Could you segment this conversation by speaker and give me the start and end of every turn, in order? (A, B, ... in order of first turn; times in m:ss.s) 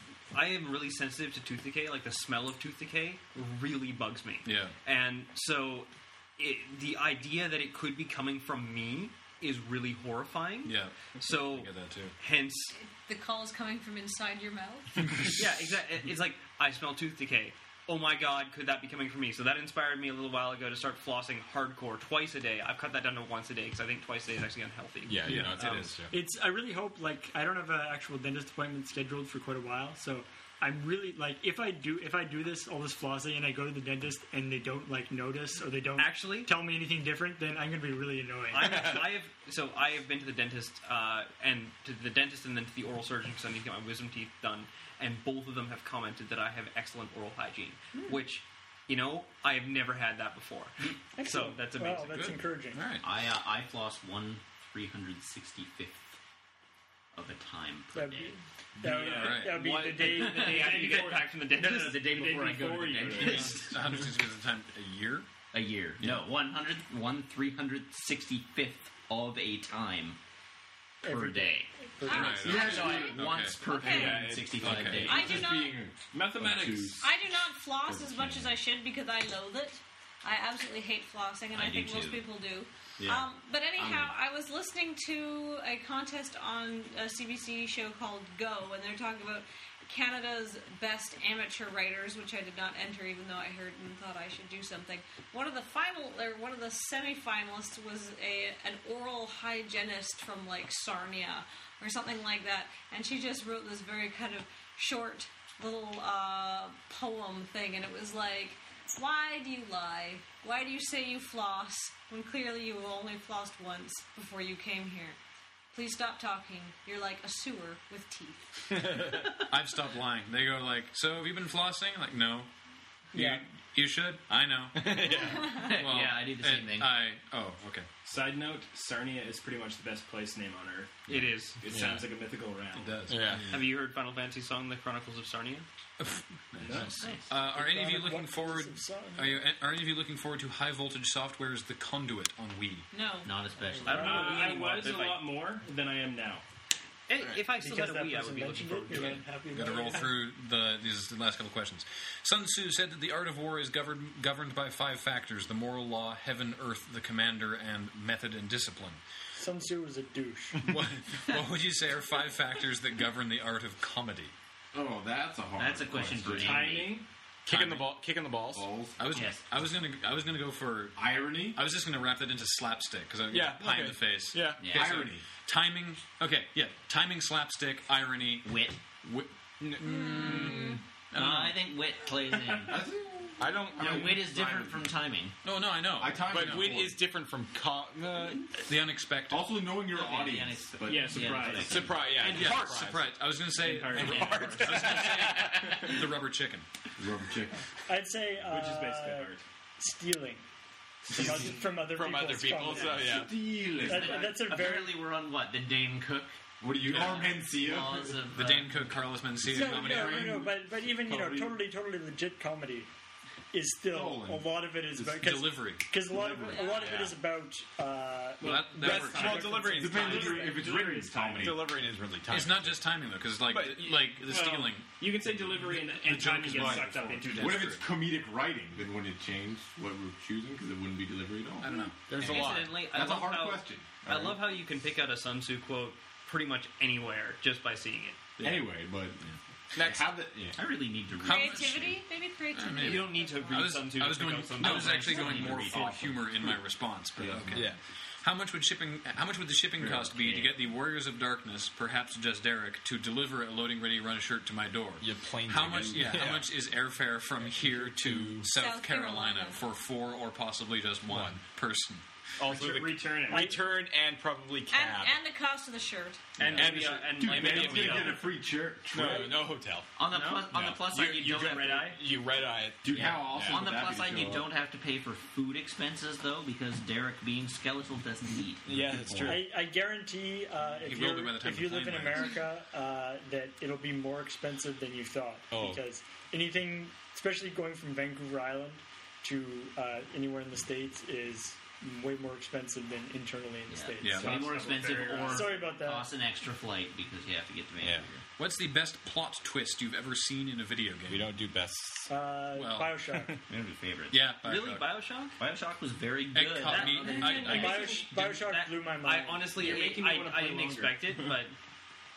0:00.3-0:12.7 A
0:04.4-0:04.8 B
0:10.6-0:12.2 B
0:12.7-0:15.0 C
0:15.0-0:15.7 B
0:15.4-0:25.4 A
0:25.1-0:26.1 D
0:25.2-0:26.0 B
0:25.8-0:39.0 E
0:36.0-0:36.5 A
0:38.5-0:52.4 A
0:51.2-0:52.8 E
0:52.1-0:53.1 B
0:53.0-0:56.2 F
0:57.2-0:58.3 F
0:57.9-1:00.9 E
0:58.8-0:59.4 G
0:59.2-1:03.9 A
0:59.2-0:59.6 B
1:00.0-1:03.7 G
1:00.6-1:00.8 F
1:01.6-1:03.7 F
1:03.4-1:05.3 B
1:05.5-1:10.2 F
1:11.0-1:12.5 E
1:11.0-1:11.7 F
1:12.0-1:14.4 C
1:12.1-1:13.6 B
1:12.4-1:13.2 H
1:12.5-1:15.4 F
1:13.8-1:15.4 D
1:14.6-1:15.2 B
1:15.0-1:15.8 C
1:15.1-1:17.2 H
1:16.1-1:17.1 G
1:17.0-1:55.2 C
1:17.8-1:18.5 H
1:21.5-1:22.3 F
1:23.0-1:23.2 H
1:23.8-1:24.1 H
1:55.7-1:59.1 C
1:58.9-1:59.2 D
1:59.1-2:02.5 B
2:03.1-2:07.9 B
2:03.1-2:03.4 E
2:04.8-2:05.6 D
2:05.1-2:05.8 C
2:05.6-2:07.0 F
2:08.0-2:13.0 G
2:11.1-2:11.6 A
2:11.7-2:12.1 D
2:11.7-2:12.0 B
2:12.7-2:13.5 B
2:13.1-2:13.5 D
2:13.3-2:13.6 F
2:13.5-2:15.7 A
2:16.0-2:22.9 B
2:16.6-2:17.0 G
2:17.0-2:17.3 F
2:17.4-2:19.4 E
2:22.9-2:23.4 C
2:23.2-2:25.2 F
2:23.8-2:24.8 E
2:23.8-2:25.2 A
2:23.9-2:26.4 G
2:27.1-2:29.3 A
2:27.6-2:30.2 E
2:28.9-2:39.0 B
2:39.4-2:40.7 E
2:40.6-2:44.3 B
2:44.7-2:46.8 H
2:45.6-2:47.0 F
2:46.4-2:47.0 G
2:47.5-2:48.7 D
2:47.5-2:47.9 B
2:48.5-2:49.0 H
2:49.0-2:58.5 B
2:49.1-2:49.4 F
2:51.0-2:51.6 H
2:53.3-2:54.9 D
2:54.6-2:55.1 F
2:54.7-2:55.2 H
2:58.4-2:58.8 F
2:59.0-3:01.6 B
2:59.6-3:00.8 D
2:59.8-3:00.8 C
3:01.1-3:02.8 F
3:02.6-3:04.9 H
3:03.4-3:04.3 D
3:03.8-3:05.3 F
3:05.4-3:06.8 B
3:06.0-3:07.0 H
3:06.3-3:08.5 D
3:08.6-3:09.6 B
3:09.3-3:11.8 H
3:09.9-3:12.9 F
3:10.9-3:11.9 G
3:11.6-3:13.1 D
3:12.2-3:16.7 B
3:13.6-3:15.0 G
3:13.6-3:15.9 D
3:15.6-3:15.8 F
3:17.0-3:17.6 H
3:17.9-3:20.4 E
3:18.4-3:19.4 G
3:21.1-3:23.3 D
3:21.1-3:23.2 E
3:21.1-3:21.4 H
3:22.7-3:24.3 H
3:23.8-3:28.9 F
3:23.8-3:25.0 E
3:26.6-3:28.2 H
3:28.3-3:30.4 B
3:29.4-3:31.5 H
3:29.5-3:32.9 E
3:31.1-3:31.4 D
3:33.5-3:38.6 E
3:33.9-3:34.6 H
3:35.0-3:35.8 B
3:36.3-3:37.1 C
3:36.6-3:37.2 D
3:38.4-3:39.7 B
3:38.4-3:41.7 G
3:38.6-3:40.6 D
3:39.7-3:41.7 H
3:41.4-3:42.9 D
3:42.3-3:45.0 B
3:43.5-3:44.2 D
3:44.2-3:47.8 G
3:45.5-3:47.8 B
3:46.3-3:51.8 H
3:51.6-3:52.3 B
3:52.1-3:52.8 D
3:52.3-3:58.4 A
3:52.6-3:54.6 H
3:58.4-3:58.6 B
3:58.4-3:59.2 H
3:59.8-4:00.2 D
3:59.8-4:00.6 H
4:00.6-4:02.0 F
4:01.2-4:03.8 C
4:01.2-4:02.0 B
4:02.5-4:22.0 B
4:02.8-4:06.1 A
4:04.6-4:06.3 F
4:07.2-4:07.7 H
4:09.8-4:10.4 H
4:15.0-4:16.5 D
4:17.4-4:18.5 D
4:18.5-4:19.6 C
4:21.1-4:21.4 D
4:22.4-4:25.2 D
4:22.4-4:23.6 G
4:23.3-4:23.6 E
4:24.7-4:26.3 C
4:26.4-4:28.3 A
4:26.4-4:28.4 D
4:27.1-4:29.4 H
4:28.9-4:29.9 D
4:28.9-4:29.3 G
4:30.0-4:32.0 F
4:30.1-4:30.5 A
4:30.5-4:33.6 D
4:31.5-4:32.0 A
4:32.8-4:34.5 H
4:33.0-4:38.7 F
4:38.7-4:39.4 H
4:38.7-4:39.5 D
4:39.2-4:54.5 E
4:40.8-4:42.4 B
4:45.5-4:45.8 D
4:53.7-4:58.2 F
4:54.0-4:54.6 B
4:54.2-4:55.5 G
4:54.4-4:55.5 A
4:55.3-4:56.1 E
4:57.8-4:58.1 D
4:58.4-5:01.3 B
5:01.1-5:02.1 D
5:02.1-5:03.4 E
5:02.6-5:03.0 B
5:03.5-5:04.3 F
5:04.1-5:05.0 B
5:04.4-5:05.4 A
5:05.4-5:07.4 F
5:06.3-5:08.1 B
5:06.6-5:11.5 A
5:07.0-5:07.9 G
5:07.4-5:09.6 E
5:09.5-5:11.3 G